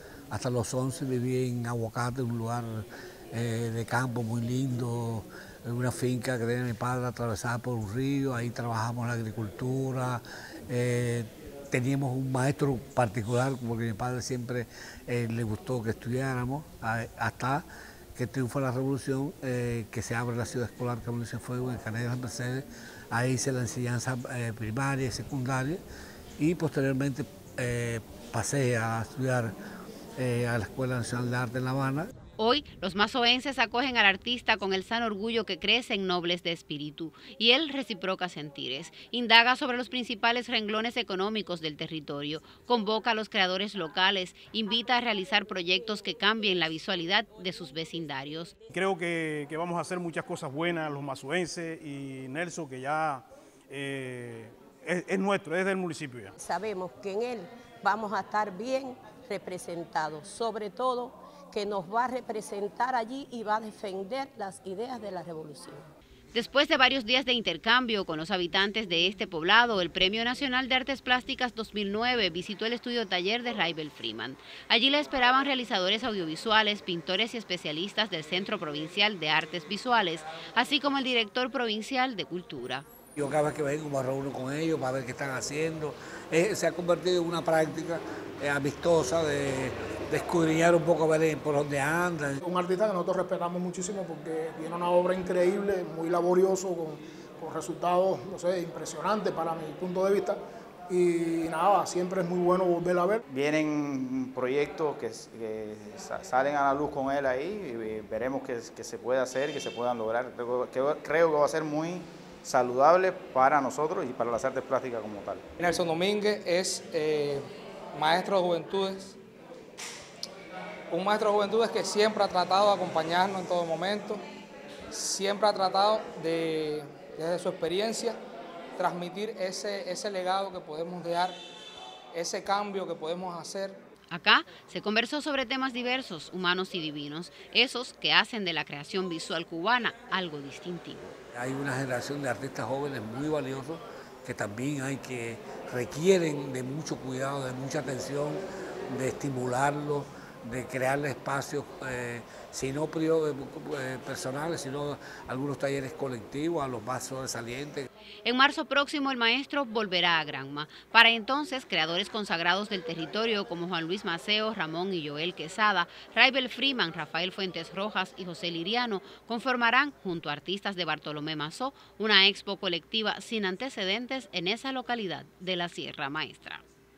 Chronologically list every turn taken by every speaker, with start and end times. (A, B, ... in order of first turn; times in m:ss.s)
0:00.3-0:25.8 A
0:26.4-0:29.5 A
0:30.2-0:32.1 A
0:32.4-0:48.5 B
0:48.7-0:56.3 C
0:56.4-1:05.8 D
1:06.3-1:22.8 B
1:23.2-1:32.4 A
1:32.4-1:43.2 E
1:43.3-1:55.4 F
1:55.6-1:57.4 G
1:57.9-1:59.2 G
2:00.9-2:04.2 G
2:04.9-2:08.2 G
2:08.8-2:11.4 G
2:12.1-2:13.8 G
2:14.1-2:21.2 B
2:21.3-2:37.9 A
2:38.2-2:56.6 B